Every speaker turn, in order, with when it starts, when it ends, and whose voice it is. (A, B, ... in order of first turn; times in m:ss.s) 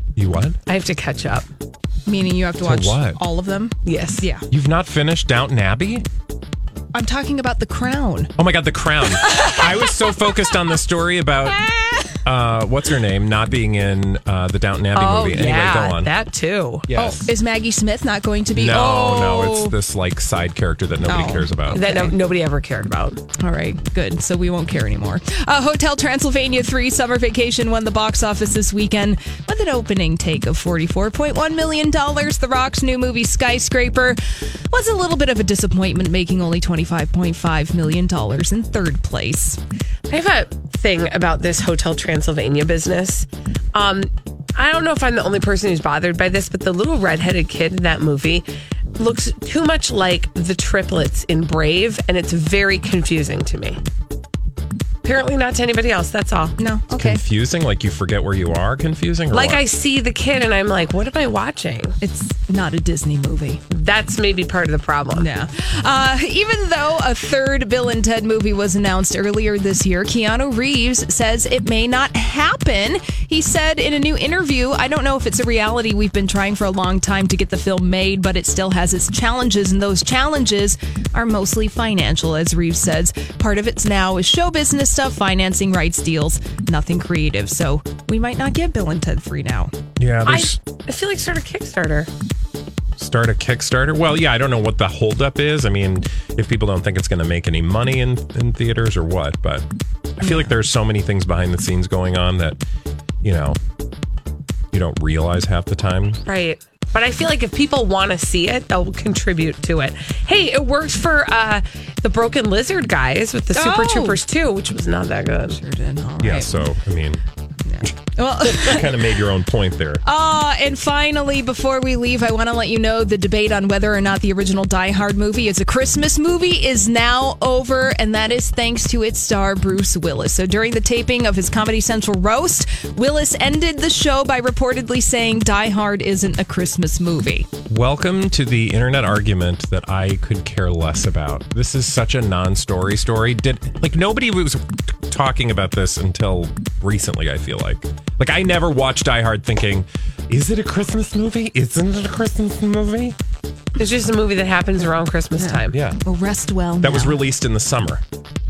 0:00.2-0:00.6 A
0:00.6-0:01.5 B
0:02.0-0:04.4 C
0:02.6-0:03.2 A
0:03.8-0:04.2 B
0:04.5-0:06.0 A
0:06.9-0:08.3 C
0:08.4-0:11.6 A
0:09.3-0:10.1 C
0:12.2-0:16.1 A
0:14.9-0:16.8 B
0:16.9-0:17.3 A
0:16.9-0:19.7 C
0:18.5-0:21.8 A
0:21.0-0:22.1 C
0:21.7-0:23.2 B
0:23.4-0:34.2 C
0:34.7-0:39.6 C
0:40.1-0:48.4 B
0:49.0-0:53.8 B
0:55.0-0:56.5 B
0:56.6-0:57.2 C
0:56.9-0:59.6 A
0:59.3-1:02.0 B
1:02.0-1:03.6 C
1:03.7-1:05.3 B
1:05.1-1:29.7 C
1:30.0-1:30.6 A
1:30.2-1:32.1 B
1:33.0-1:39.6 A
1:40.2-1:42.6 A
1:43.2-1:43.6 A
1:44.7-1:46.2 A
1:46.2-1:55.6 B
1:53.5-1:54.2 C
1:55.5-1:56.6 C
1:56.2-1:57.2 A
1:57.6-1:59.2 C
1:57.8-2:00.0 A
2:00.0-2:17.5 C
2:17.7-2:33.1 A
2:33.8-2:35.8 B
2:35.4-2:37.2 C
2:35.7-2:36.0 A
2:36.8-2:38.0 A